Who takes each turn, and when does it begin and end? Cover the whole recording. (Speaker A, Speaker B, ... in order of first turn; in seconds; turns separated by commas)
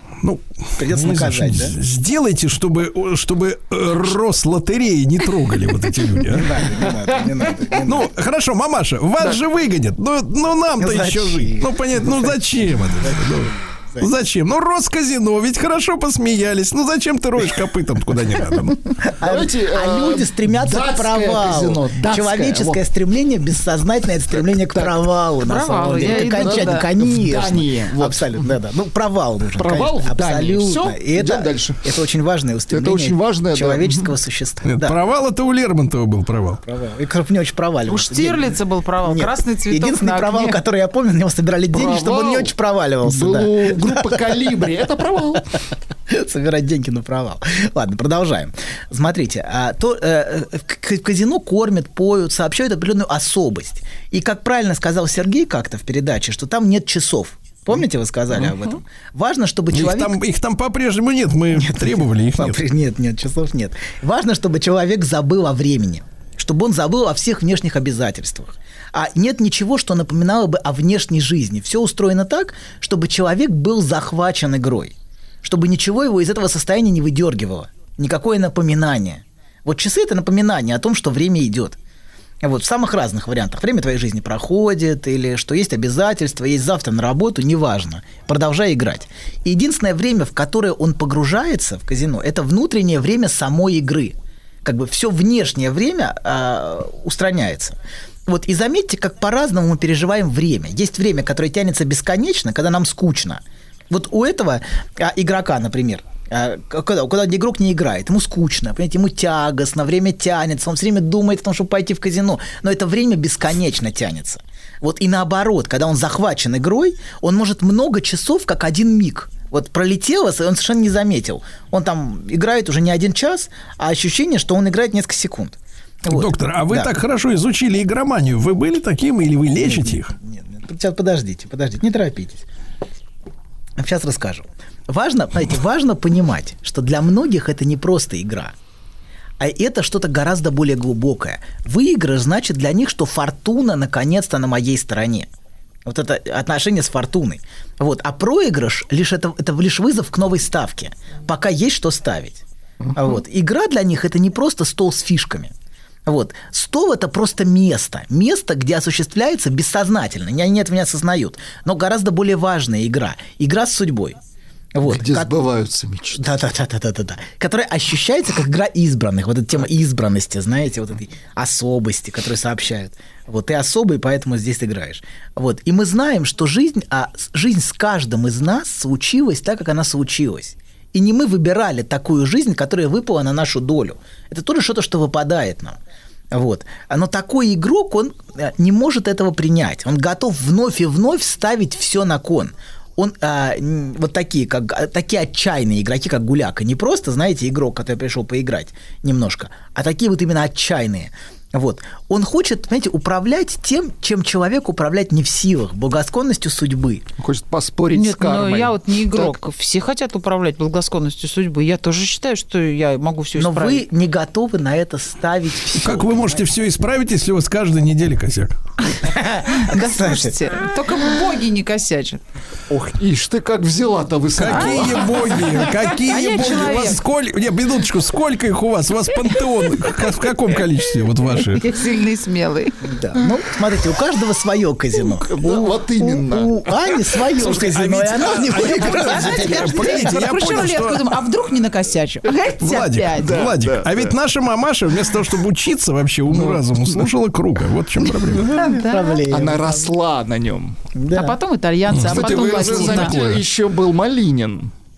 Speaker A: 0.2-6.6, Speaker B: 0.8-1.8, Speaker B: 6.3-8.1, Speaker A: 7.8-18.8, Speaker B: 10.8-12.4, Speaker B: 12.9-14.1, Speaker B: 19.0-35.0, Speaker C: 19.2-22.8, Speaker C: 24.4-25.0, Speaker D: 25.4-26.9, Speaker C: 26.0-28.4, Speaker C: 29.6-31.8, Speaker C: 32.7-34.1, Speaker A: 34.6-36.6, Speaker B: 36.6-44.7, Speaker D: 37.9-40.6, Speaker C: 41.7-42.5, Speaker C: 43.0-45.5, Speaker B: 46.1-60.2, Speaker A: 59.7-62.6, Speaker B: 61.5-81.8, Speaker B: 82.4-126.9, Speaker A: 126.1-130.1, Speaker B: 129.6-132.5, Speaker B: 133.8-138.5, Speaker B: 139.4-145.3, Speaker B: 145.8-152.4, Speaker B: 152.9-155.5, Speaker B: 156.1-164.2, Speaker B: 164.8-165.4, Speaker C: 164.8-166.3, Speaker B: 166.1-185.8, Speaker B: 186.3-207.1, Speaker C: 207.2-209.3, Speaker D: 207.9-213.9, Speaker B: 213.4-216.4, Speaker A: 215.8-218.6, Speaker B: 219.0-220.4, Speaker D: 219.5-222.2, Speaker C: 222.7-225.5, Speaker A: 224.3-231.7, Speaker D: 224.5-224.8, Speaker D: 226.1-227.0, Speaker D: 231.5-232.8, Speaker B: 232.8-240.1, Speaker C: 235.0-236.5, Speaker A: 237.4-241.1, Speaker D: 238.8-243.4, Speaker A: 242.6-248.5, Speaker C: 243.2-244.2, Speaker C: 246.3-246.6, Speaker B: 248.3-249.9, Speaker D: 248.5-249.2, Speaker C: 249.3-250.8, Speaker B: 250.9-251.4, Speaker D: 251.1-253.2, Speaker A: 251.9-253.4, Speaker C: 252.0-254.7